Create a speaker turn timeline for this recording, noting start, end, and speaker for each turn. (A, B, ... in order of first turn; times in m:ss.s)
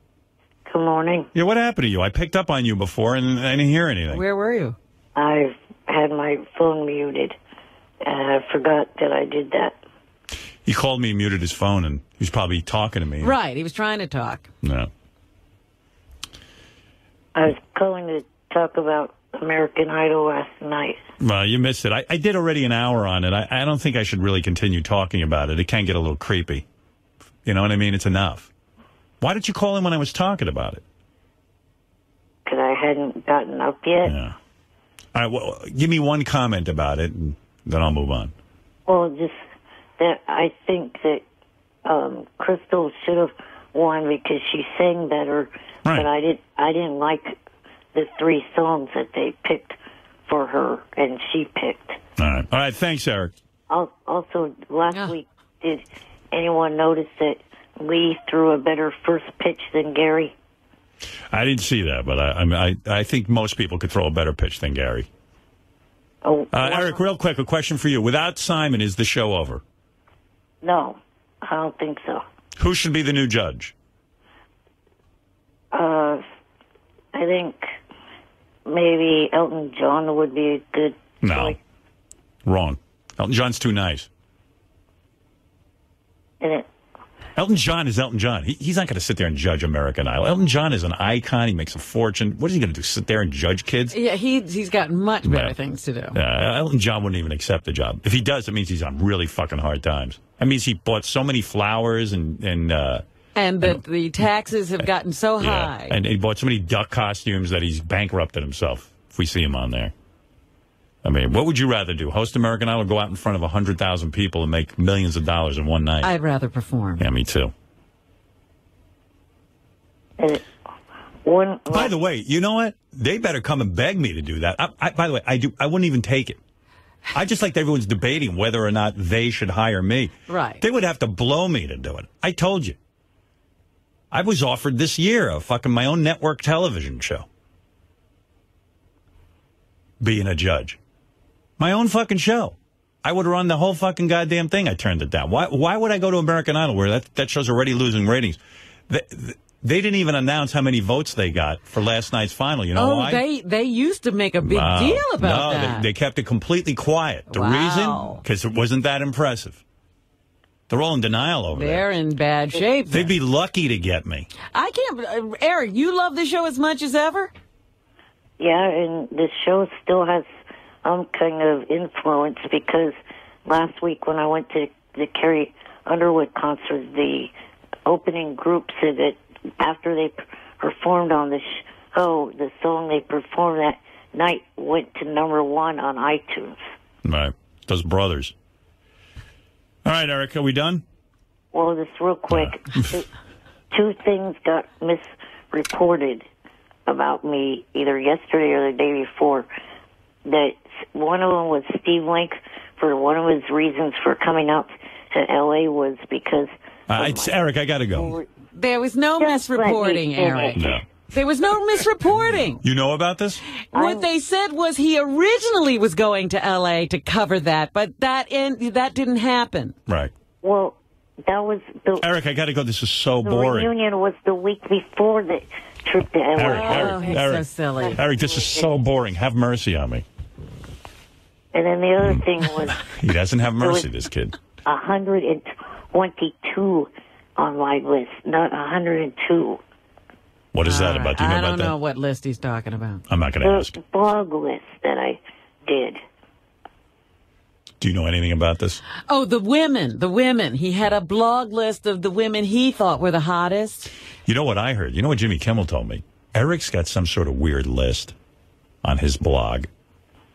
0:00.7-0:01.3 A
0:01.3-0:04.2 B
0:04.1-0:04.8 C
0:05.2-0:07.4 A
0:08.0-0:09.8 A
0:10.6-0:13.3 B
0:13.2-0:14.4 C
0:14.6-0:14.9 B
0:17.3-0:21.0 A
0:21.2-0:26.6 B
0:27.4-0:28.5 B
0:29.2-0:30.8 B
0:32.4-0:34.1 A
0:34.0-0:34.3 B
0:35.1-0:38.3 B
0:38.9-0:39.3 A
0:40.0-0:41.2 A
0:41.8-0:47.3 A
0:47.9-0:49.7 A
0:50.3-0:52.0 A
0:52.2-0:53.3 B
0:53.7-1:00.3 A
1:01.3-1:05.1 B
1:06.2-1:07.0 A
1:06.5-1:09.6 B
1:10.6-1:12.2 A
1:12.6-1:13.7 B
1:15.7-1:16.2 A
1:17.1-1:17.6 A
1:18.7-1:21.6 A
1:21.2-1:21.6 B
1:22.4-1:24.1 B
1:26.4-1:26.6 A
1:27.3-1:34.0 B
1:33.9-1:36.2 C
1:35.2-1:35.6 B
1:36.1-1:43.0 B
1:43.4-1:46.0 C
1:45.4-1:49.9 B
1:51.0-1:56.1 B
1:56.0-1:57.0 C
1:57.0-1:57.5 B
2:00.2-2:00.4 A
2:01.2-2:01.9 A
2:01.7-2:06.4 B
2:07.1-2:12.8 B
2:10.3-2:10.6 C
2:14.1-2:17.3 B
2:20.0-2:20.8 B
2:21.6-2:33.2 B
2:32.7-2:35.9 C
2:34.4-2:39.6 B
2:37.3-2:38.2 C
2:40.7-2:41.9 B
2:41.5-2:43.1 C
2:42.9-2:44.3 B
2:44.5-2:47.3 C
2:48.4-2:50.2 A
2:50.8-2:52.9 A
2:53.4-2:57.3 A
2:57.8-3:06.6 A
3:07.0-3:08.3 B
3:09.8-3:10.8 B
3:11.5-3:13.1 A
3:12.3-3:12.9 B
3:13.7-3:16.2 A
3:16.9-3:19.5 A
3:20.2-3:27.4 A
3:26.9-3:28.1 B
3:27.9-3:28.3 A
3:28.5-3:32.6 C
3:29.2-3:30.8 A
3:30.6-3:30.8 B
3:32.6-3:33.4 B
3:33.7-3:39.7 C
3:33.7-3:34.1 A
3:40.4-3:42.1 A
3:42.0-3:43.7 B
3:43.2-3:47.2 A
3:46.4-3:50.0 B
3:46.5-3:48.0 C
3:47.8-3:48.7 A
3:51.5-3:52.9 A
3:52.8-3:54.4 B
3:53.6-3:53.9 A
3:54.6-3:59.6 A
4:00.5-4:01.7 B
4:00.6-4:03.0 C
4:03.1-4:03.8 B
4:03.4-4:06.0 A
4:07.8-4:08.8 B
4:09.1-4:13.9 C
4:14.2-4:18.1 B
4:18.8-4:19.7 B